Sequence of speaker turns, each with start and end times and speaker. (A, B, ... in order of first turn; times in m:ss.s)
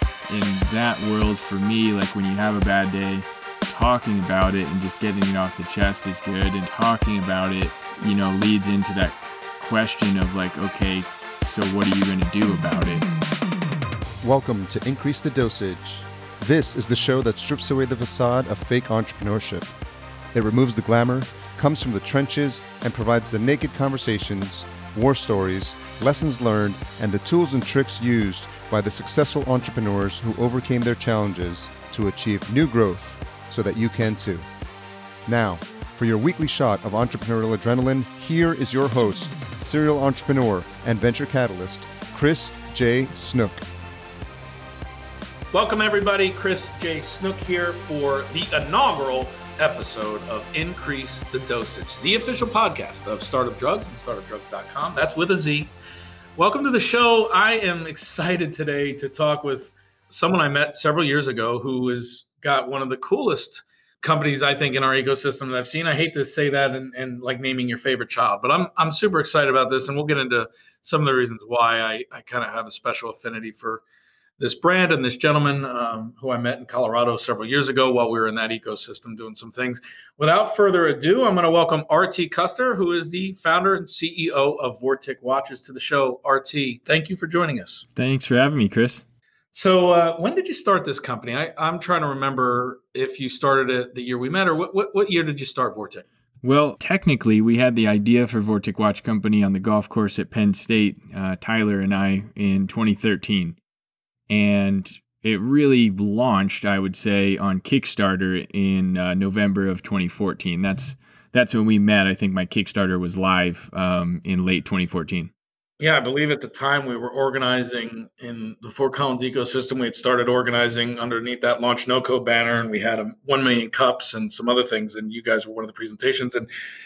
0:00.3-0:13.1 A
0:14.2-0:19.7 B
0:20.3-0:34.5 B
0:35.2-0:43.6 B
0:45.5-0:55.7 C
0:56.4-1:13.8 C
1:14.4-1:27.8 C
1:27.9-1:29.0 A
1:29.5-1:36.0 C
1:36.4-1:43.6 A
1:44.3-1:55.3 A
1:55.8-2:06.5 C